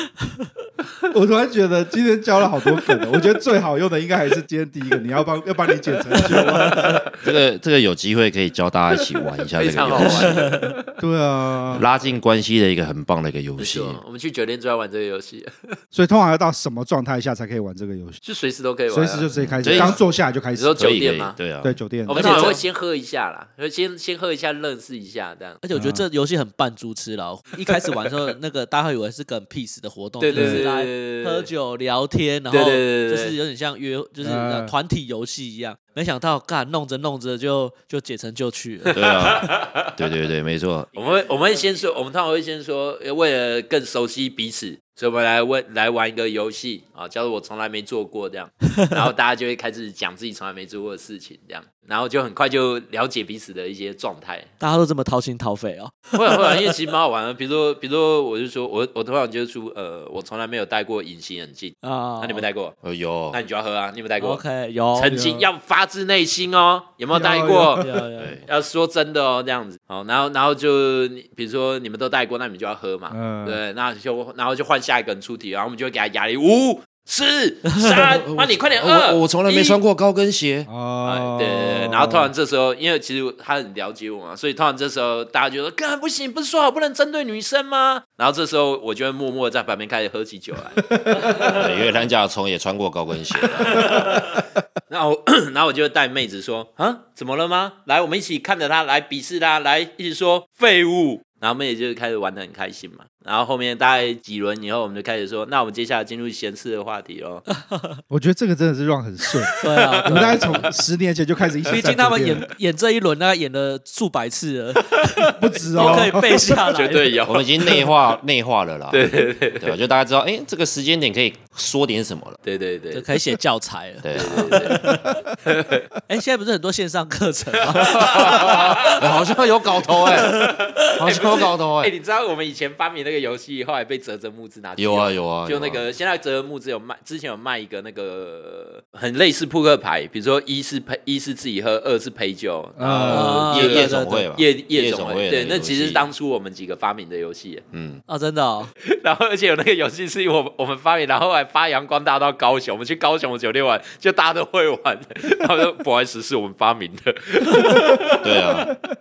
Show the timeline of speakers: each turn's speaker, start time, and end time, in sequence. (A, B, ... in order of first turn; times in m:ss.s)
0:01.1-0:07.0 A
0:07.2-0:10.5 B
0:09.6-0:10.9 C
0:10.0-0:10.7 D
0:11.0-0:11.9 A
0:11.7-0:14.0 B
0:13.6-0:15.8 C
0:15.9-0:18.2 A
0:18.2-0:20.0 C
0:18.9-0:20.7 A
0:19.3-0:20.0 B
0:20.5-0:21.4 C
0:20.8-0:22.5 B
0:21.6-0:22.5 A
0:22.1-0:25.6 C
0:22.2-0:22.6 D
0:25.6-0:39.0 D
0:25.8-0:26.0 A
0:30.2-0:31.5 C
0:30.3-0:30.7 A
0:32.5-0:33.4 C
0:34.2-0:34.7 A
0:38.9-0:40.1 C
0:38.9-0:40.9 B
0:40.9-0:54.5 C
0:54.6-0:56.7 D
0:56.1-1:02.8 C
1:01.8-1:02.4 D
1:02.8-1:03.4 B
1:03.3-1:04.4 C
1:04.2-1:05.2 D
1:05.0-1:07.8 C
1:05.1-1:05.5 A
1:07.1-1:08.0 A
1:07.8-1:08.4 D
1:08.2-1:08.4 B
1:08.5-1:19.8 C
1:13.1-1:13.6 A
1:17.7-1:18.0 D
1:18.1-1:20.7 B
1:20.7-1:22.3 A
1:21.0-1:31.6 C
1:30.9-1:31.6 A
1:31.3-1:34.1 B
1:33.4-1:47.4 C
1:47.7-1:48.0 D
1:48.1-1:52.5 A
1:49.4-1:50.5 C
1:49.6-1:50.7 D
1:51.7-1:57.2 D
1:55.4-1:56.5 A
1:55.8-1:56.2 C
1:56.7-1:58.0 C
1:57.3-1:59.0 B
1:58.9-1:59.8 C
1:59.6-2:02.4 B
2:02.4-2:03.2 C
2:02.9-2:05.0 D
2:04.0-2:04.6 B
2:04.1-2:04.8 C
2:05.4-2:05.9 C
2:06.1-2:08.8 D
2:07.7-2:09.2 C
2:08.0-2:11.9 B
2:10.3-2:27.6 C
2:14.8-2:15.8 B
2:22.8-2:23.4 A
2:22.8-2:26.1 B
2:23.1-2:24.3 D
2:27.7-2:28.0 B
2:28.1-2:28.7 D
2:28.8-2:38.5 C
2:37.5-2:37.8 D
2:38.2-2:38.7 B